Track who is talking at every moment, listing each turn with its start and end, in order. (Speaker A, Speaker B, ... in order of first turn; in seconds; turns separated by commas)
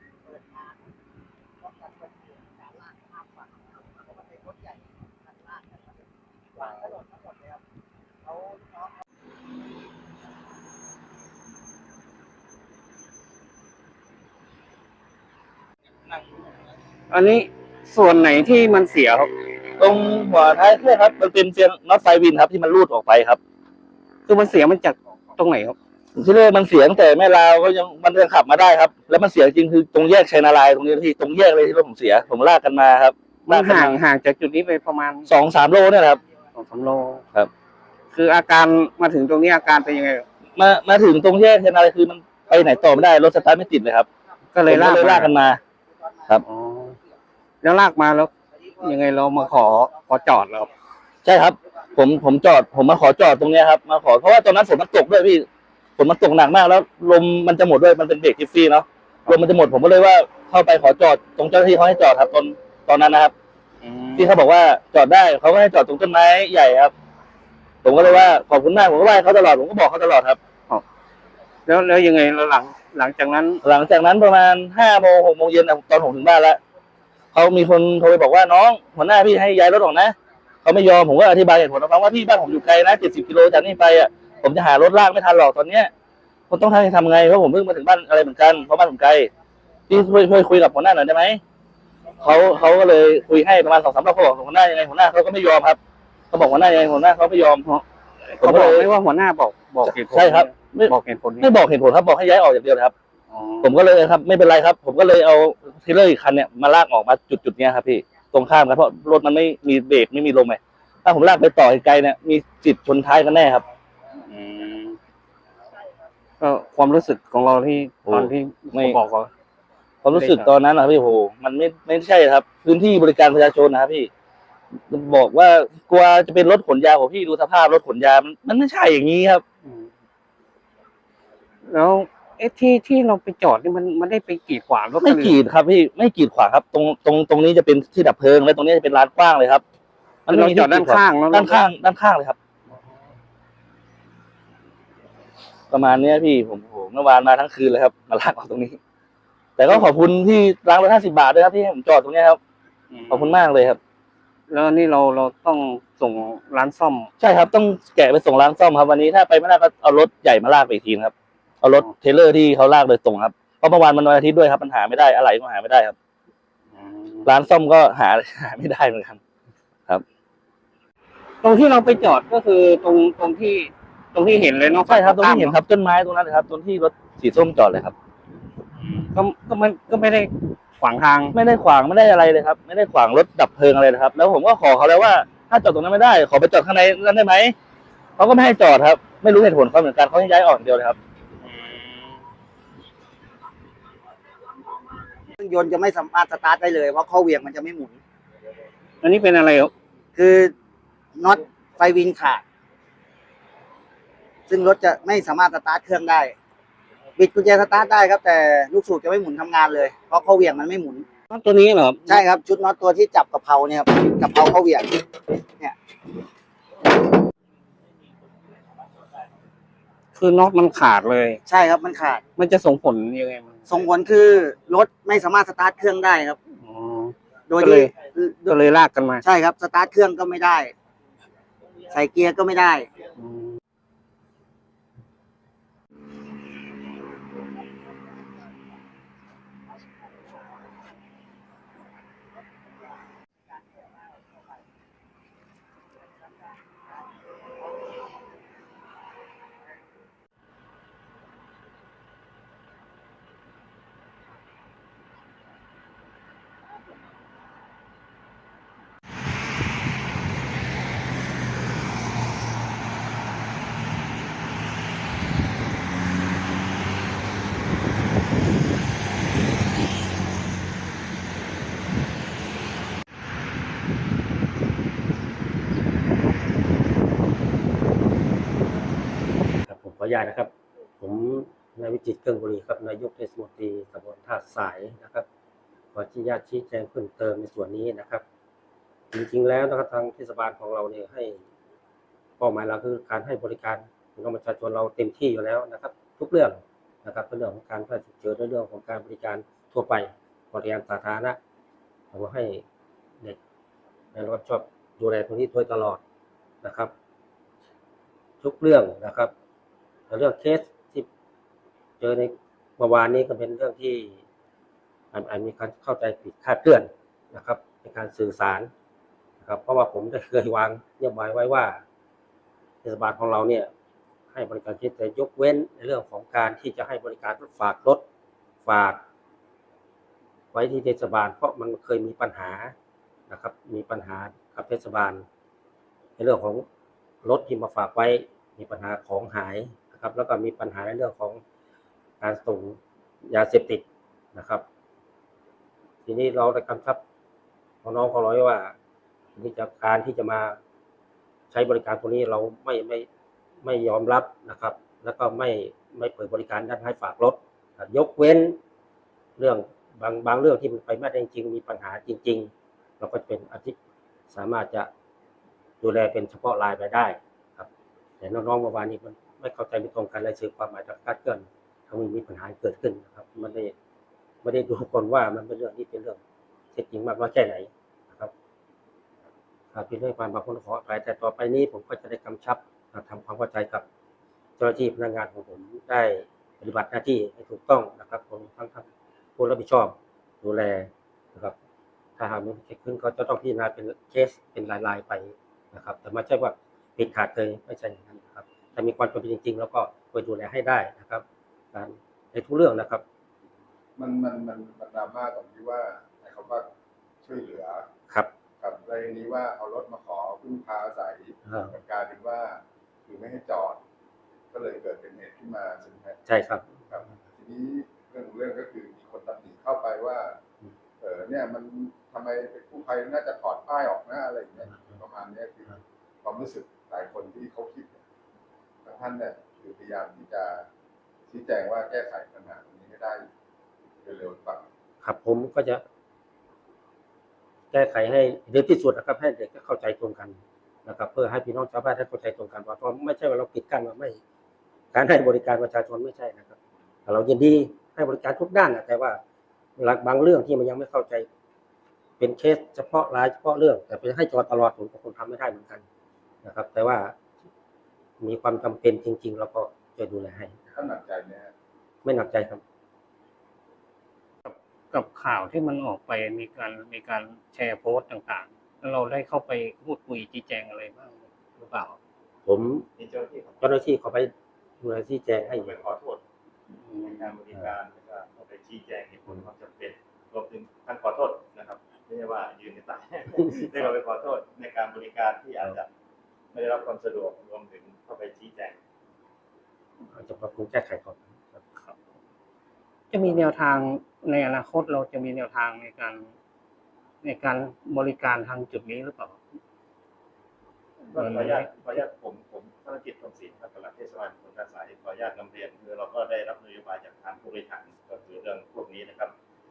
Speaker A: 0.2-0.8, Speaker A: 1.6-6.0, Speaker A: 6.6-7.6, Speaker A: 8.3-8.9, Speaker B: 17.1-19.3, Speaker C: 19.8-23.4, Speaker B: 24.3-25.8, Speaker C: 26.2-34.0, Speaker B: 33.5-35.3, Speaker C: 35.3-36.2, Speaker B: 36.5-37.2, Speaker B: 38.1-40.2, Speaker C: 40.6-44.1, Speaker B: 44.5-45.4, Speaker C: 44.7-45.6, Speaker A: 45.9-46.2, Speaker B: 46.5-47.0, Speaker B: 47.6-50.7, Speaker A: 49.5-50.1, Speaker C: 51.2-55.5, Speaker C: 56.0-63.3, Speaker B: 63.8-64.3, Speaker C: 64.2-66.9, Speaker C: 67.8-70.4, Speaker B: 71.7-73.6, Speaker C: 73.6-76.6, Speaker C: 77.3-85.9, Speaker C: 86.5-89.3, Speaker C: 89.9-91.4, Speaker C: 92.2-95.8, Speaker C: 96.3-97.6, Speaker B: 97.6-101.5, Speaker C: 98.4-98.9, Speaker C: 99.9-102.9, Speaker B: 103.3-103.7, Speaker C: 103.6-113.7, Speaker B: 114.3-115.0, Speaker B: 116.4-119.3, Speaker C: 118.1-119.0, Speaker C: 120.0-124.1, Speaker B: 120.1-120.5, Speaker C: 124.9-129.4, Speaker B: 129.7-129.9, Speaker B: 131.7-135.4, Speaker C: 135.0-139.6, Speaker B: 140.3-141.6, Speaker C: 140.3-142.4, Speaker B: 142.7-143.1, Speaker C: 145.7-148.8, Speaker C: 149.6-152.4, Speaker B: 152.9-153.4, Speaker C: 153.1-153.8, Speaker B: 154.5-157.1, Speaker C: 157.2-165.9, Speaker B: 166.7-167.3, Speaker C: 167.2-169.2, Speaker B: 171.4-175.6, Speaker C: 174.8-177.9, Speaker B: 178.8-181.4, Speaker C: 181.3-187.6, Speaker C: 188.2-191.0, Speaker B: 191.4-192.2, Speaker A: 195.4-198.0, Speaker B: 199.0-199.7, Speaker A: 200.2-200.6, Speaker A: 201.2-202.4, Speaker A: 204.5-206.4, Speaker A: 207.2-211.1, Speaker B: 211.3-212.2, Speaker A: 212.1-215.8, Speaker B: 220.2-221.4, Speaker A: 221.5-222.2, Speaker B: 222.4-223.6, Speaker A: 223.7-226.4, Speaker B: 226.6-229.2, Speaker A: 227.5-228.6, Speaker A: 229.2-230.7, Speaker A: 231.9-232.9, Speaker B: 233.2-233.6, Speaker D: 279.6-285.3, Speaker D: 285.9-288.2, Speaker D: 289.1-291.4, Speaker D: 292.4-301.4, Speaker D: 302.1-302.6, Speaker D: 304.1-306.0, Speaker D: 306.6-306.9, Speaker D: 308.4-309.3, Speaker D: 310.1-311.1, Speaker D: 312.0-314.2, Speaker D: 315.1-318.7, Speaker D: 319.4-321.8, Speaker D: 322.8-323.7, Speaker D: 324.3-328.0, Speaker D: 328.6-329.0, Speaker D: 330.5-332.7, Speaker D: 333.3-335.2, Speaker D: 336.2-336.6, Speaker D: 337.2-341.4, Speaker D: 342.2-344.6, Speaker D: 346.1-347.0, Speaker D: 347.8-348.8, Speaker D: 349.4-350.6, Speaker D: 351.5-353.1, Speaker D: 353.6-358.6, Speaker D: 359.4-363.8, Speaker D: 364.3-364.9, Speaker D: 365.8-367.7, Speaker D: 368.2-373.7, Speaker D: 374.4-376.2, Speaker D: 376.7-378.3, Speaker D: 379.7-383.9, Speaker D: 384.6-391.6, Speaker D: 392.2-403.0, Speaker E: 404.0-406.7, Speaker E: 407.2-407.9, Speaker E: 408.6-413.8, Speaker D: 411.5-411.8, Speaker E: 414.5-416.2, Speaker D: 416.3-416.8, Speaker E: 416.9-420.4, Speaker E: 421.0-428.0, Speaker E: 428.8-430.7, Speaker E: 431.3-433.3, Speaker E: 434.0-434.7, Speaker D: 435.0-435.8, Speaker D: 437.7-444.2, Speaker D: 444.9-449.2, Speaker D: 449.8-451.3, Speaker D: 452.2-455.9, Speaker D: 456.4-457.2, Speaker D: 458.2-460.6, Speaker E: 460.7-461.5, Speaker D: 462.0-462.6, Speaker B: 464.4-472.0, Speaker D: 472.5-472.9, Speaker F: 473.0-473.6, Speaker D: 473.6-475.7, Speaker F: 475.5-476.2, Speaker F: 477.0-485.9, Speaker F: 486.5-488.8, Speaker D: 490.1-491.6, Speaker B: 493.1-496.3, Speaker B: 497.2-499.4, Speaker B: 501.1-502.0, Speaker F: 501.1-509.3